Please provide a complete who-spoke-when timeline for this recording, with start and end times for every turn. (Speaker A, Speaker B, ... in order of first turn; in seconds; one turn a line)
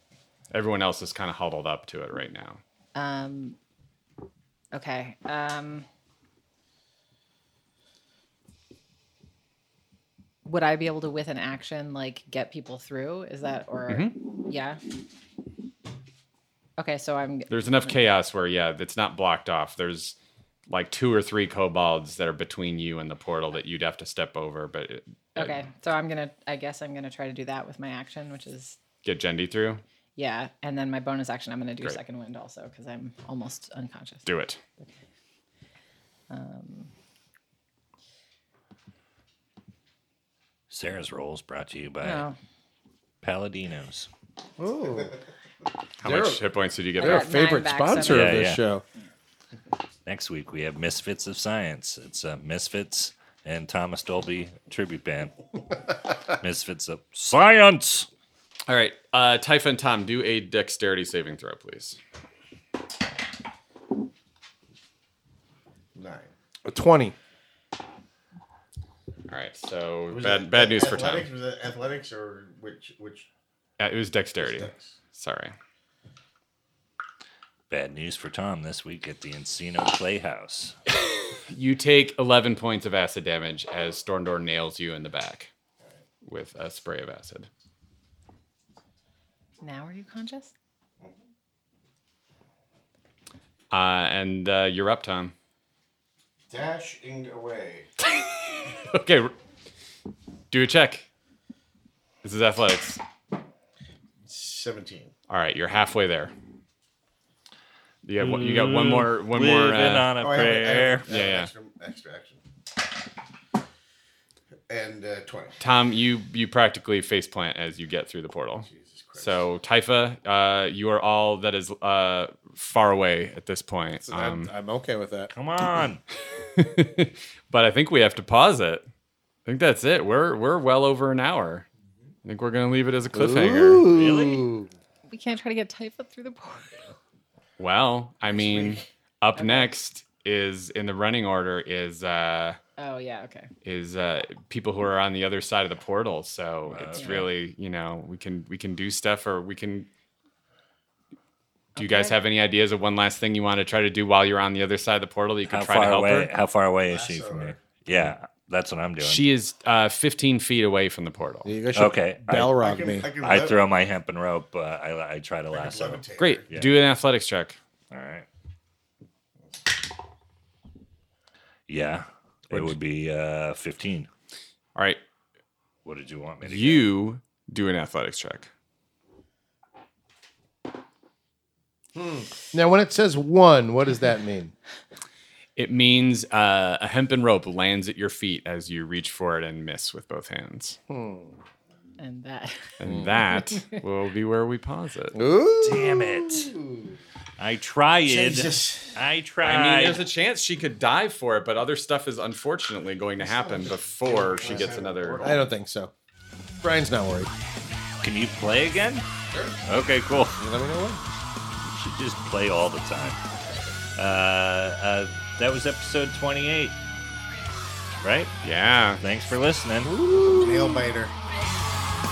Speaker A: 0.5-2.6
Speaker B: 3.0-3.6
Speaker B: 4.7-5.9
Speaker B: 10.4-14.8
Speaker A: 13.9-14.2
Speaker B: 16.8-17.9
Speaker A: 17.5-20.2
Speaker A: 20.7-25.6
Speaker B: 25.4-28.8
Speaker A: 29.0-29.8
Speaker B: 30.2-34.2
Speaker A: 34.3-34.6
Speaker B: 36.3-36.9
Speaker C: 40.7-42.3
Speaker B: 42.0-42.4
Speaker C: 43.2-44.1
Speaker D: 44.6-45.2
Speaker A: 46.0-47.4
Speaker D: 46.0-46.4
Speaker D: 47.0-48.8
Speaker B: 47.0-48.4
Speaker C: 48.0-48.6
Speaker C: 50.1-55.3
Speaker C: 56.3-58.1
Speaker A: 58.7-62.0
Speaker E: 66.0-66.3
Speaker D: 66.7-67.2
Speaker A: 69.3-71.3
Speaker E: 70.1-73.3
Speaker A: 73.8-75.5
Speaker E: 74.4-74.9
Speaker C: 77.7-80.8
Speaker A: 81.3-85.5
Speaker A: 86.2-87.5
Speaker B: 89.6-90.5
Speaker A: 93.7-95.3
Speaker E: 96.5-97.9
Speaker A: 98.0-99.3
Speaker A: 100.5-101.1
Speaker A: 102.2-103.0
Speaker E: 104.2-105.1
Speaker A: 105.3-106.3
Speaker A: 108.0-110.1
Speaker C: 108.2-111.1
Speaker E: 110.2-112.4
Speaker A: 111.1-111.5
Speaker E: 114.7-115.6
Speaker A: 115.6-124.5
Speaker E: 118.6-119.5
Speaker D: 124.1-125.3
Speaker C: 125.3-126.0
Speaker A: 126.3-128.8
Speaker A: 129.5-131.7
Speaker A: 132.2-133.8
Speaker D: 133.1-134.7
Speaker C: 133.9-134.4
Speaker B: 135.1-136.9
Speaker A: 137.6-142.6
Speaker E: 138.3-138.8
Speaker B: 139.4-139.7
Speaker B: 142.8-143.5
Speaker A: 143.6-149.9
Speaker C: 146.7-147.3
Speaker B: 151.8-152.1
Speaker A: 151.8-156.3
Speaker C: 155.5-159.2
Speaker E: 156.9-157.6
Speaker A: 159.0-161.5
Speaker D: 161.4-163.1
Speaker C: 161.8-162.6
Speaker E: 162.6-163.8
Speaker C: 163.2-166.8
Speaker E: 165.5-166.5
Speaker A: 166.2-167.6
Speaker C: 167.9-168.3
Speaker C: 171.7-174.1
Speaker A: 174.8-175.0
Speaker C: 175.8-176.9
Speaker A: 176.4-178.5
Speaker D: 182.0-184.5
Speaker A: 185.6-190.8
Speaker D: 190.9-191.4
Speaker B: 192.0-192.7
Speaker A: 192.8-195.2
Speaker D: 192.8-193.2
Speaker B: 193.3-193.8
Speaker D: 195.1-196.8
Speaker C: 195.6-196.5
Speaker C: 197.4-200.0
Speaker E: 198.1-199.0
Speaker A: 199.4-205.4
Speaker E: 203.2-205.5
Speaker D: 205.2-205.9
Speaker D: 206.6-207.3
Speaker C: 208.0-209.1
Speaker C: 209.7-210.4
Speaker D: 210.4-211.0
Speaker C: 211.7-213.2
Speaker C: 214.0-216.8
Speaker C: 218.0-218.3
Speaker A: 218.4-219.0
Speaker C: 219.0-220.0
Speaker D: 219.8-220.9
Speaker E: 220.1-221.2